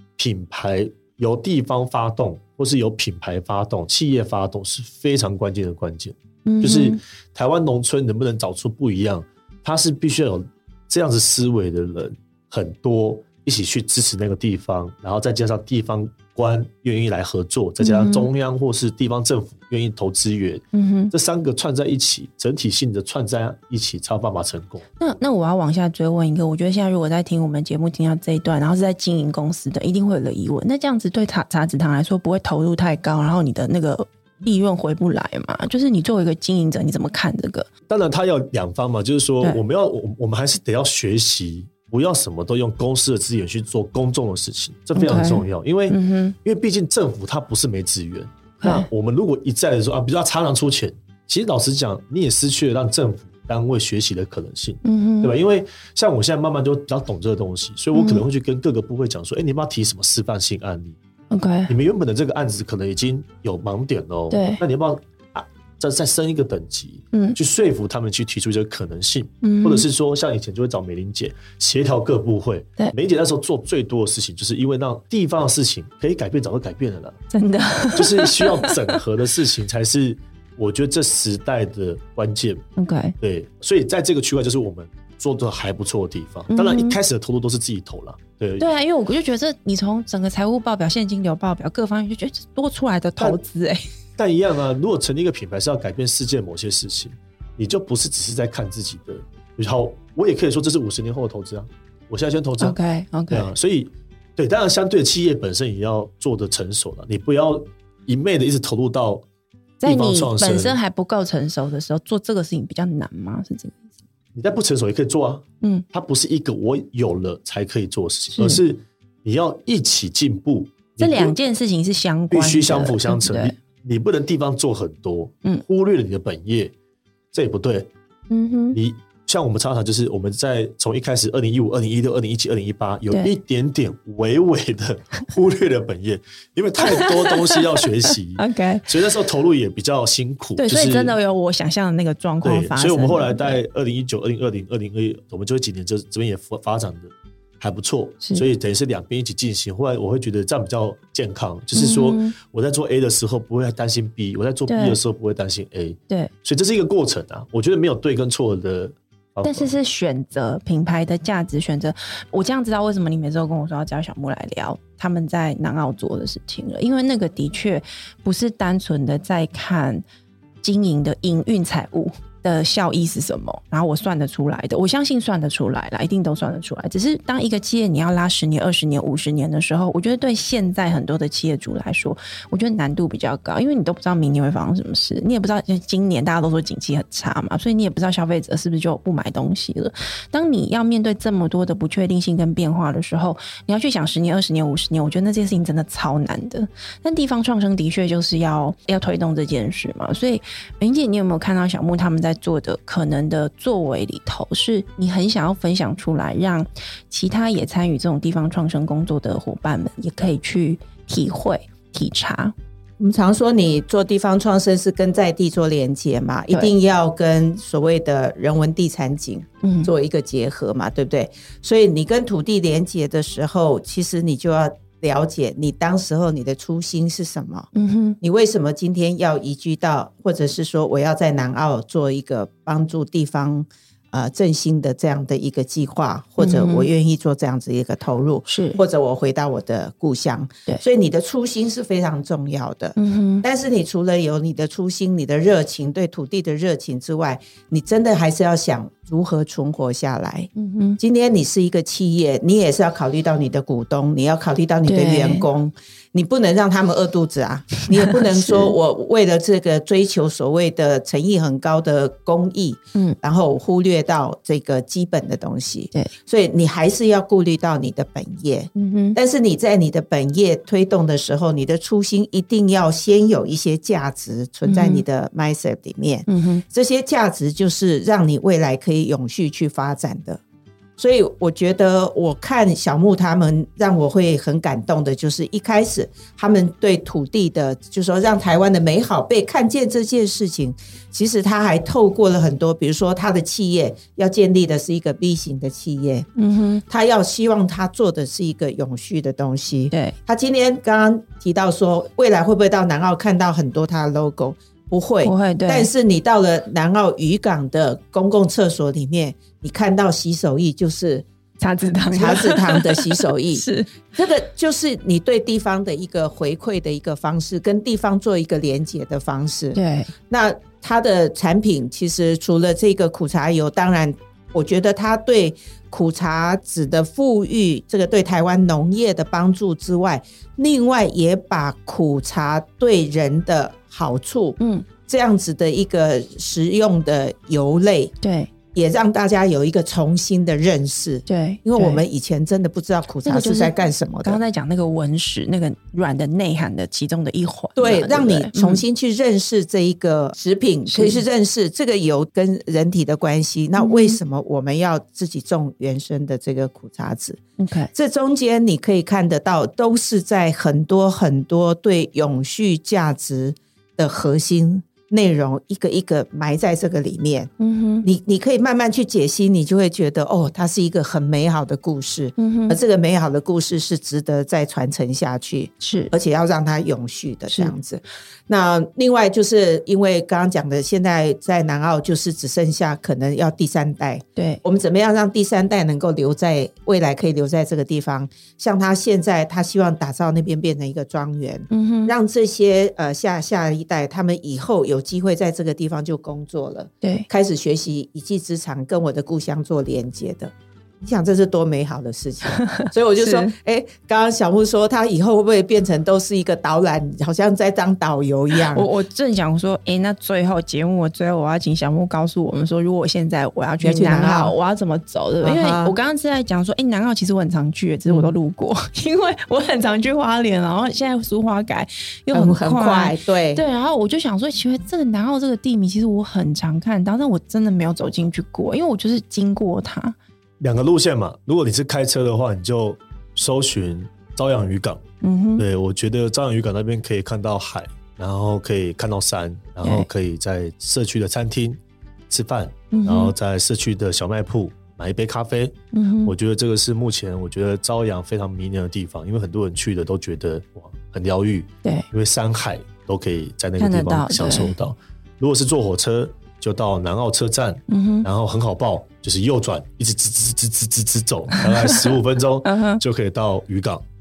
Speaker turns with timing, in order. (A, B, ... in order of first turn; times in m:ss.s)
0:00.2-0:24.9 A
0:06.5-0:07.0 B
0:17.8-0:18.3 B
0:20.7-0:21.1 B
0:25.0-0:37.7 B
0:37.9-1:01.0 A
0:45.0-0:46.4 B
0:48.6-0:48.9 B
0:54.8-0:55.3 B
0:57.9-0:58.2 B
1:01.3-1:01.7 B
1:01.7-1:17.2 A
1:04.3-1:04.6 B
1:09.4-1:09.8 B
1:17.3-1:18.9 B
1:17.9-1:22.6 A
1:22.8-1:23.2 B
1:23.2-1:28.6 A
1:26.5-1:27.0 B
1:28.6-1:33.8 B
1:34.2-1:42.8 A
1:42.6-1:43.5 B
1:43.3-1:49.2 A
1:49.8-1:53.8 B
1:49.8-1:50.8 A
1:54.4-2:01.3 A
2:01.0-2:03.5 B
2:02.3-2:06.7 A
2:07.3-2:07.9 A
2:08.3-2:08.8 B
2:08.7-2:21.2 A
2:16.8-2:17.8 B
2:18.4-2:18.9 B
2:20.6-2:23.6 B
2:22.4-2:39.7 A
2:31.8-2:32.3 B
2:34.7-2:35.0 B
2:39.4-2:50.0 B
2:50.6-3:32.5 B
3:33.0-3:47.7 C
3:39.6-3:39.9 B
3:47.8-3:48.2 B
3:48.2-4:40.4 C
3:56.4-3:56.9 B
3:58.5-3:58.8 B
4:03.0-4:03.4 B
4:10.6-4:11.0 B
4:14.9-4:15.5 B
4:18.0-4:18.7 B
4:28.8-4:29.2 B
4:34.6-4:35.0 B
4:36.3-4:36.6 B
4:41.0-4:56.3 C
4:56.4-4:56.8 B
4:56.9-5:11.2 C
5:05.2-5:05.9 B
5:11.6-5:13.9 B
5:12.1-5:19.8 C
5:19.8-5:20.1 B
5:20.3-5:34.6 C
5:34.6-5:34.9 B
5:35.1-5:38.1 C
5:38.2-5:38.5 B
5:38.7-5:44.4 C
5:41.3-5:42.0 B
5:43.2-5:48.8 B
5:47.8-5:57.4 C
5:50.9-5:51.2 B
5:53.8-5:54.2 B
5:57.6-5:57.9 B
5:57.9-6:07.5 C
6:07.6-6:08.1 B
6:08.0-6:48.9 C
6:12.4-6:12.8 B
6:15.8-6:16.1 B
6:24.4-6:24.6 B
6:31.7-6:32.1 B
6:37.0-6:37.3 B
6:42.5-6:43.5 B
6:48.7-7:10.2 B
6:53.8-6:54.6 C
6:55.4-6:56.0 C
7:02.3-7:03.6 C
7:10.6-7:15.0 A
7:15.2-7:15.6 B
7:15.6-7:21.8 A
7:19.8-7:20.1 B
7:22.3-7:44.0 A
7:22.9-7:23.3 B
7:25.9-7:26.3 B
7:33.8-7:34.8 B
7:37.9-7:38.2 B
7:41.6-7:42.1 B
7:42.6-7:43.0 B